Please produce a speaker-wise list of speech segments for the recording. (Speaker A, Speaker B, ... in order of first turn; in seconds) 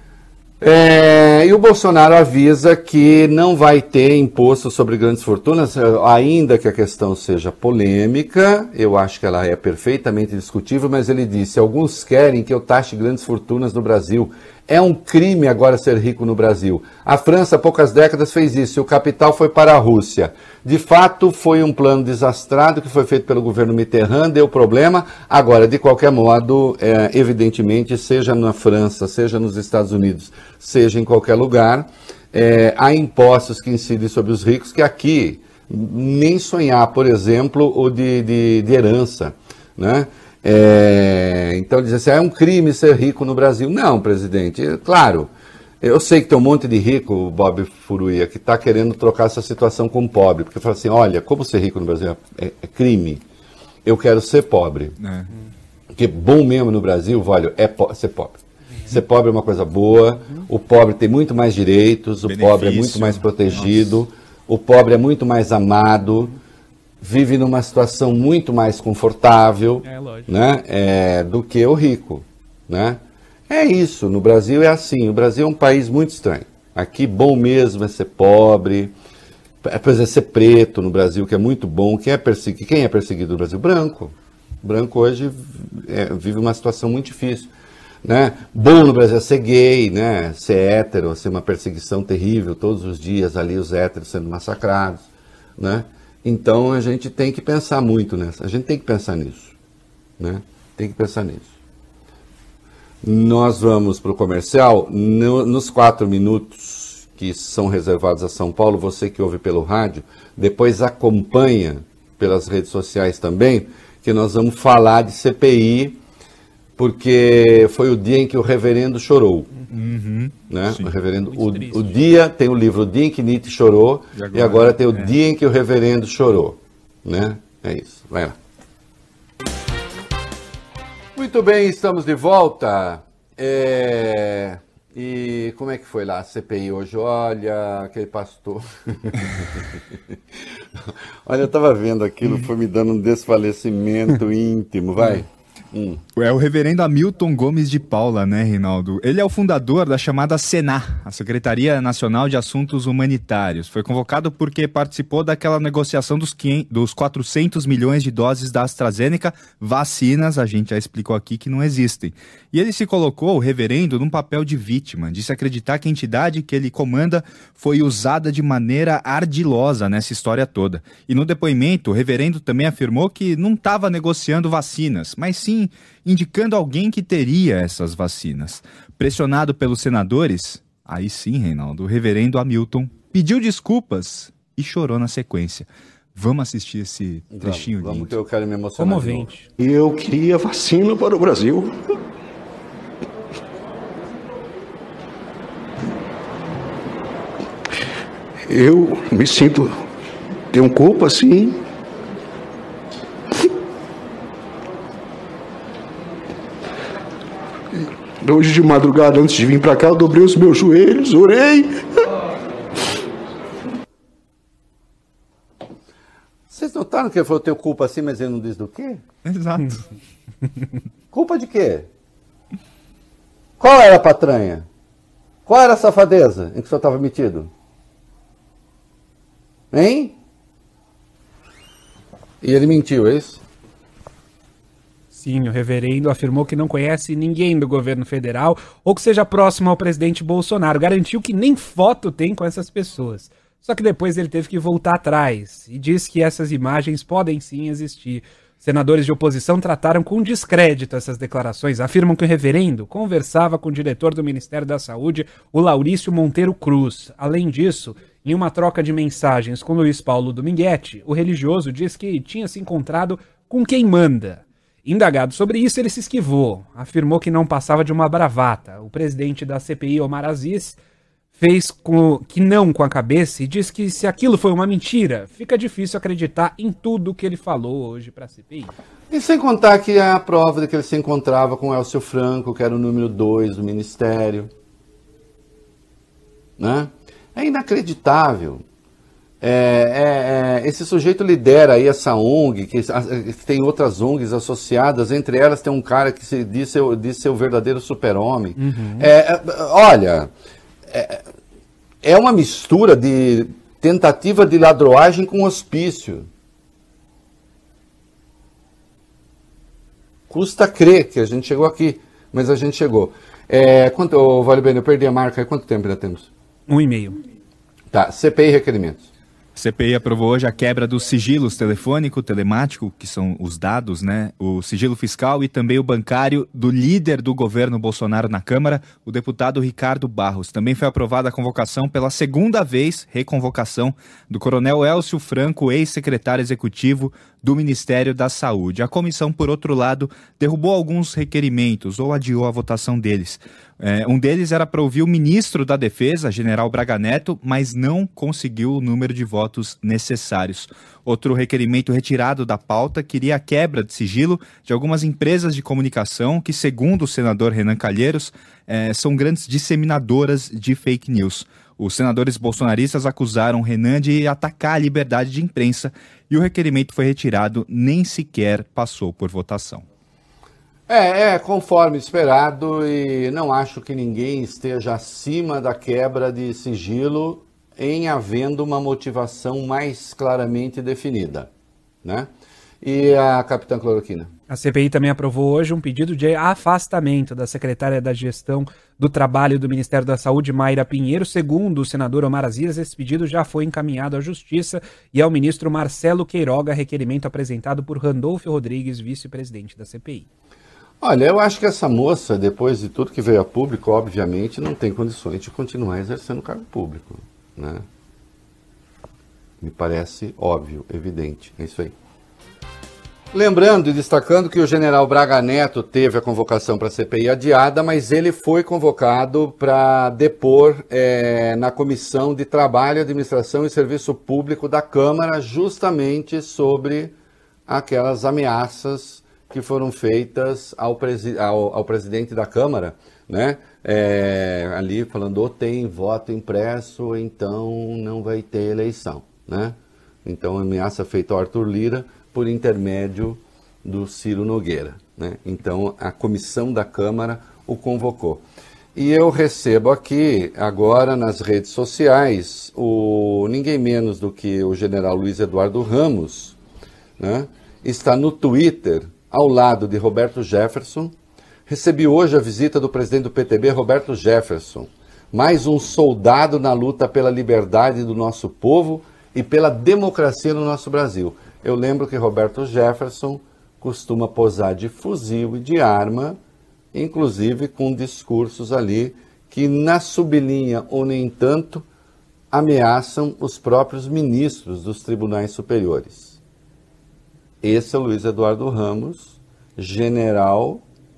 Speaker A: 0.6-45.3, 45.8-53.2, 53.9-55.0, 55.9-66.3, 67.0-78.9, 79.6-87.5, 88.0-95.1, 95.6-99.6, 100.2-101.5, 103.0-116.0, 116.8-119.5, 120.5-128.4, 131.2-139.6, 140.9-146.0, 187.3-189.3, 216.5-219.0, 221.1-221.9, 223.6-224.7, 225.5-227.5, 229.7-230.2, 232.4-233.4, 279.1-284.5, 286.6-288.6, 289.4-300.3, 300.9-301.2, 302.0-306.3, 310.3-316.3, 317.9-319.1, 370.9-381.5, 382.0-382.3, 382.8-384.3, 401.0-407.9, 409.6-411.9, 413.3-427.1, 427.7-456.6, 457.2-461.1, 461.7-476.4, 476.9-481.9, 482.5-486.4, 487.6-490.8
Speaker B: 55.0-55.3, 62.2-63.9, 119.7-120.9, 124.2-125.2, 146.2-188.1, 219.2-219.9, 319.6-369.9
Speaker C: 69.8-70.3, 121.3-122.0, 188.8-189.5, 235.1-270.8, 271.4-278.7, 298.6-299.1, 316.7-317.2, 384.5-400.3
Speaker D: 189.6-191.8, 198.5-199.9, 200.5-201.7, 207.7-212.0